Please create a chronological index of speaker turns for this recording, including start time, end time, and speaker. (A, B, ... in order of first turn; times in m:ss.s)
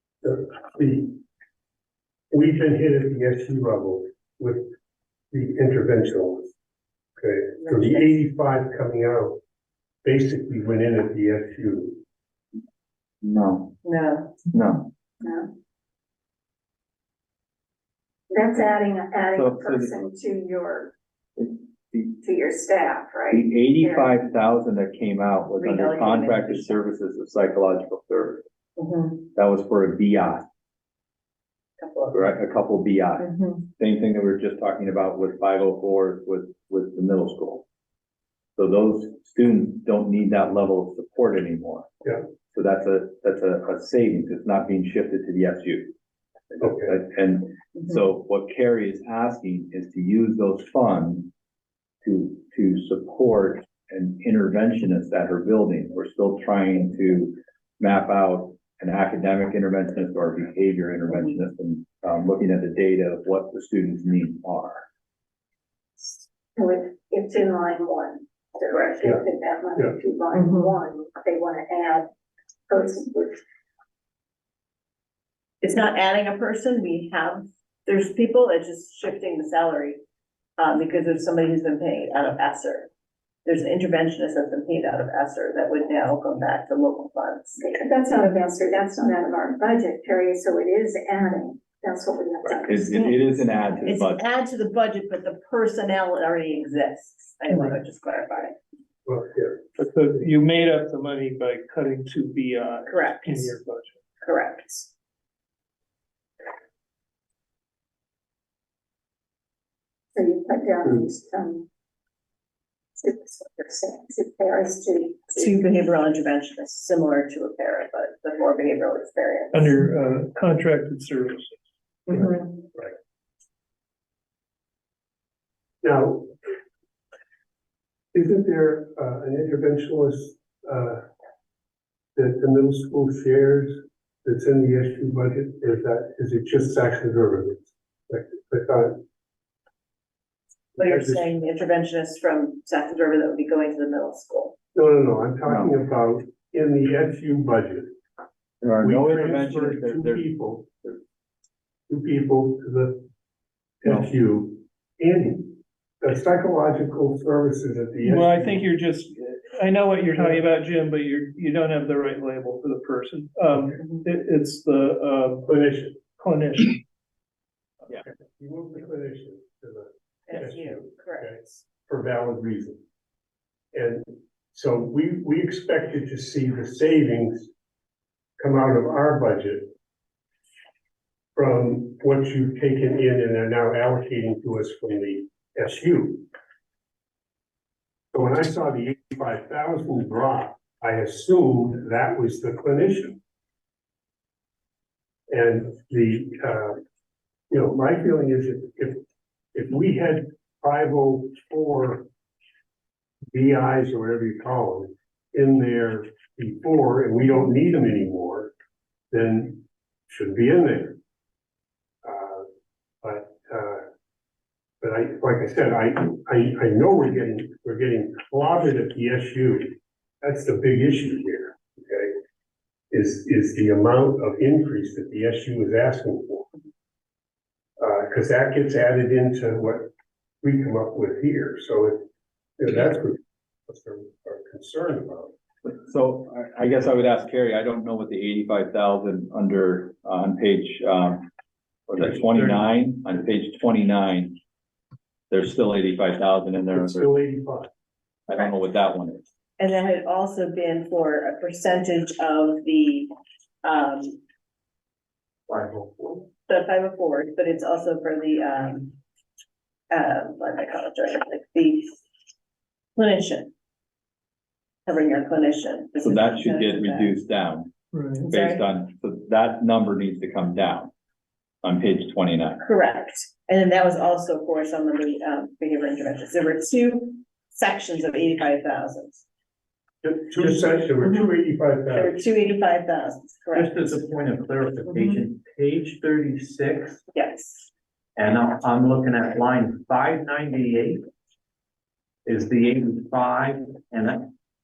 0:00.2-0:01.2 A
0:02.3-0:04.7 A
0:05.3-0:06.5 A
0:07.2-0:09.4 A
0:07.6-0:08.1 B
0:10.0-0:12.0 A
0:13.2-0:13.8 C
0:13.8-0:14.4 B
0:14.5-0:14.9 C
0:15.2-0:15.5 D
0:18.3-0:20.9 D
0:19.3-0:20.0 C
0:21.4-0:22.1 C
0:22.1-0:24.1 D
0:23.3-0:28.4 C
0:25.6-0:26.7 B
0:28.8-0:29.2 B
0:29.3-0:30.4 C
0:31.8-0:32.3 B
0:32.1-0:37.6 C
0:33.2-0:33.6 B
0:38.6-0:41.9 C
0:42.5-0:45.9 C
0:46.5-0:51.3 C
0:46.6-0:46.9 A
0:52.0-1:04.8 C
1:06.0-1:12.1 D
1:10.3-1:10.7 B
1:12.7-1:13.4 D
1:15.6-1:20.0 B
1:20.6-1:22.9 B
1:23.4-1:27.8 B
1:27.6-1:33.5 D
1:32.5-1:34.2 C
1:33.8-1:38.6 B
1:37.5-1:37.8 E
1:39.0-1:39.6 A
1:39.8-1:43.9 E
1:42.9-1:43.6 B
1:44.2-1:44.9 B
1:50.1-1:51.7 D
1:53.0-1:55.5 D
1:55.3-1:59.7 B
1:59.5-2:01.6 E
2:02.1-2:02.6 B
2:05.8-2:06.3 A
2:08.1-2:11.0 A
2:12.2-2:19.0 A
2:20.8-2:24.5 B
2:20.8-2:21.3 A
2:24.7-2:27.9 A
2:25.4-2:25.7 C
2:28.6-2:30.3 C
2:28.8-2:30.7 A
2:31.9-2:33.1 A
2:33.8-2:38.7 A
2:38.0-2:45.5 E
2:45.5-2:46.0 A
2:46.2-2:46.8 E
2:47.9-2:52.8 A
2:50.3-2:51.6 B
2:53.7-2:57.5 A
2:58.4-2:59.7 A
3:01.4-3:06.3 A
3:08.1-3:13.2 A
3:15.3-3:16.8 A
3:17.5-3:19.0 A
3:19.5-3:22.1 A
3:23.3-3:28.5 A
3:29.1-3:31.0 A
3:32.0-3:32.4 A
3:33.0-3:33.8 A
3:34.8-3:42.2 A
3:42.9-3:46.5 A
3:47.8-3:49.9 A
3:50.4-3:52.0 A
3:52.6-3:55.3 A
3:55.6-4:01.3 C
4:01.9-4:04.4 C
4:02.0-4:02.6 A
4:05.3-4:07.1 C
4:06.7-4:07.7 A
4:08.3-4:09.2 C
4:09.6-4:14.2 B
4:15.5-4:16.2 A
4:16.5-4:19.0 B
4:19.9-4:22.0 B
4:23.0-4:23.5 B
4:24.8-4:27.1 B
4:26.0-4:27.7 C
4:27.9-4:28.2 E
4:28.2-4:28.6 B
4:28.3-4:30.9 C
4:31.6-4:32.6 C
4:32.6-4:39.2 B
4:40.0-4:42.2 A
4:41.9-4:43.7 B
4:43.5-4:47.0 F
4:44.8-4:45.2 B
4:47.1-4:47.7 B
4:48.2-4:51.0 F
4:52.2-4:54.2 F